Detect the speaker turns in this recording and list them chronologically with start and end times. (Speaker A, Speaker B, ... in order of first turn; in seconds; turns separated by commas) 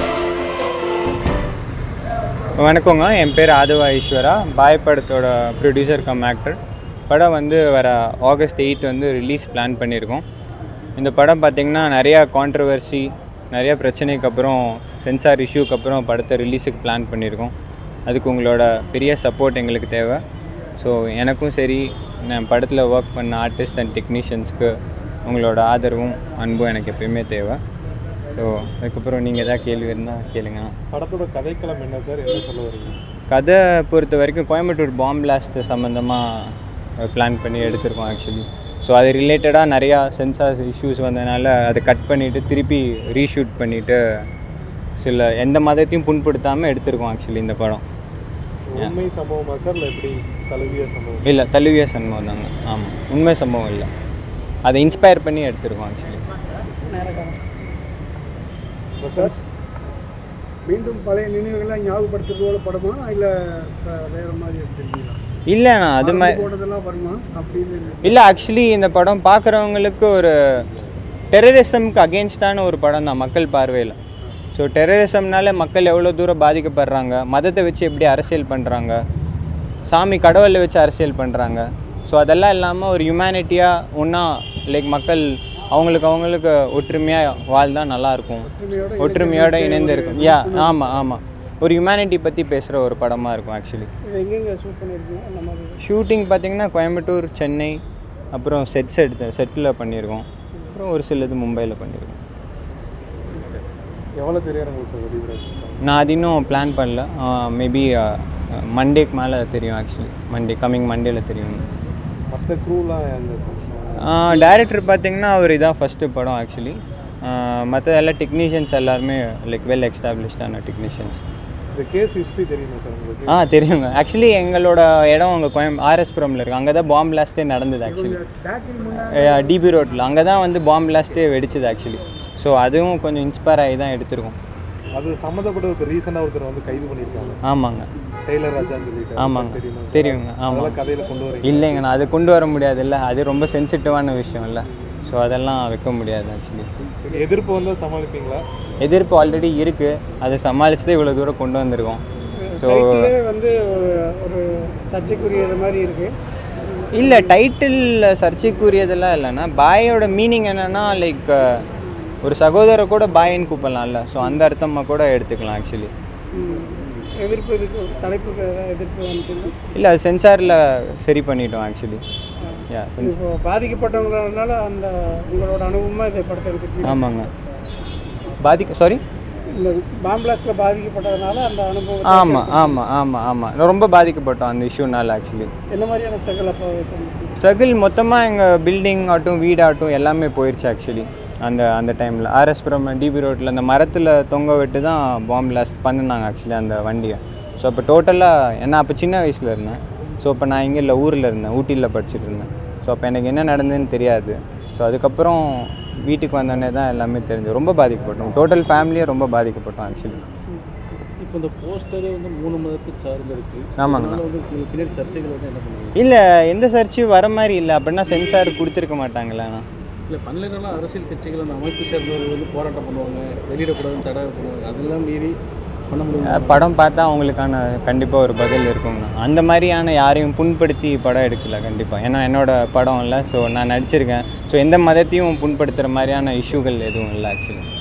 Speaker A: 2.6-6.6, Speaker A: 7.1-10.2, Speaker A: 11.0-17.5, Speaker A: 18.1-20.2, Speaker A: 20.8-24.7, Speaker A: 25.3-27.6, Speaker A: 28.3-30.7, Speaker B: 30.9-33.0, Speaker A: 33.3-44.0, Speaker A: 45.0-47.8, Speaker B: 48.7-51.3, Speaker A: 51.2-53.9, Speaker A: 54.6-56.2, Speaker C: 56.6-57.4, Speaker B: 59.0-59.4, Speaker C: 60.7-65.2, Speaker A: 65.5-66.4, Speaker C: 66.0-68.2, Speaker A: 68.0-70.7, Speaker A: 71.3-74.0, Speaker A: 74.5-79.0, Speaker A: 79.9-93.9, Speaker C: 88.5-90.9, Speaker C: 94.1-95.8, Speaker A: 95.8-97.8, Speaker A: 98.3-102.2, Speaker B: 104.2-105.8, Speaker A: 105.8-111.6, Speaker B: 112.3-114.6, Speaker A: 114.0-121.2, Speaker B: 121.7-123.5, Speaker A: 123.3-128.2, Speaker C: 128.0-129.6, Speaker A: 128.9-134.4, Speaker B: 134.9-137.4, Speaker A: 137.4-137.9, Speaker B: 138.3-141.9, Speaker A: 139.2-140.8, Speaker A: 141.4-146.7, Speaker B: 147.0-148.4, Speaker A: 148.8-152.0, Speaker C: 152.4-157.4, Speaker A: 152.6-153.1, Speaker A: 156.9-161.6, Speaker A: 162.2-165.9, Speaker C: 166.3-169.6, Speaker A: 169.8-172.0, Speaker C: 172.4-177.1, Speaker A: 172.7-173.2, Speaker A: 176.8-177.3, Speaker A: 178.4-179.0, Speaker C: 179.5-182.8, Speaker A: 182.0-185.5, Speaker C: 185.7-187.3, Speaker A: 187.4-210.2, Speaker D: 211.2-216.0, Speaker A: 213.8-214.2, Speaker A: 216.0-219.7, Speaker D: 220.1-225.3, Speaker D: 225.9-226.7, Speaker A: 226.2-237.7